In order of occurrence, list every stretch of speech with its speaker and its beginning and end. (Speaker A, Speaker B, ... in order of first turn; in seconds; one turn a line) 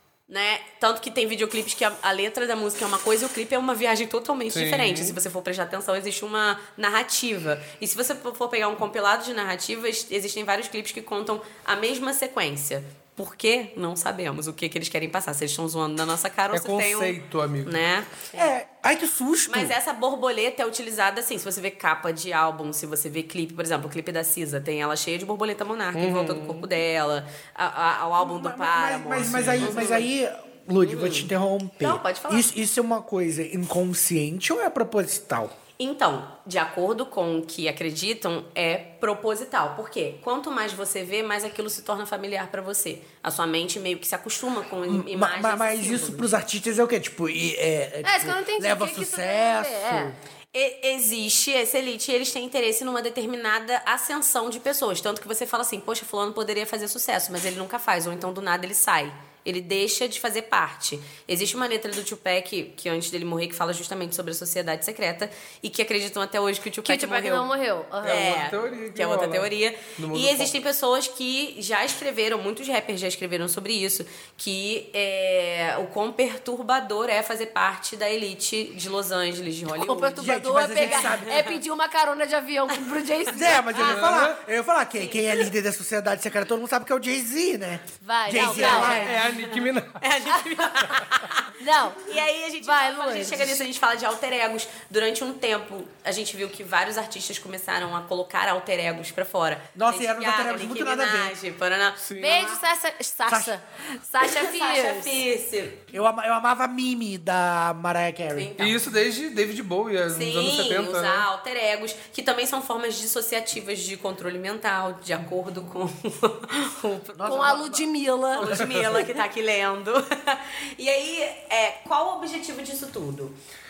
Speaker A: 0.3-18.1
Speaker B: 4.5-5.2
Speaker B: 16.5-17.8
Speaker C: 18.4-19.8
Speaker A: 19.5-30.1
Speaker B: 25.9-26.7
Speaker C: 28.2-35.5
Speaker B: 29.4-29.7
Speaker A: 30.8-32.5
Speaker A: 35.8-46.3
Speaker C: 44.9-50.2
Speaker D: 48.0-50.1
Speaker A: 50.5-67.5
Speaker D: 66.8-68.3
Speaker B: 68.0-70.5
Speaker A: 68.0-81.5
Speaker D: 79.7-84.2
Speaker C: 80.2-81.5
Speaker C: 83.3-89.2
Speaker B: 83.8-84.4
Speaker D: 88.0-89.4
Speaker A: 88.4-89.1
Speaker B: 88.5-90.0
Speaker A: 90.0-91.5
Speaker D: 90.3-91.0
Speaker D: 91.6-92.1
Speaker A: 92.0-102.1
Speaker D: 92.6-93.6
Speaker C: 99.8-101.3
Speaker B: 102.0-102.6
Speaker D: 102.2-105.2
Speaker C: 103.3-103.5
Speaker A: 104.2-105.9
Speaker C: 105.9-108.5
Speaker A: 108.3-108.8
Speaker B: 108.6-111.3
Speaker A: 110.1-117.6
Speaker C: 117.2-117.9
Speaker D: 117.2-118.7
Speaker A: 118.3-123.4
Speaker C: 118.6-118.9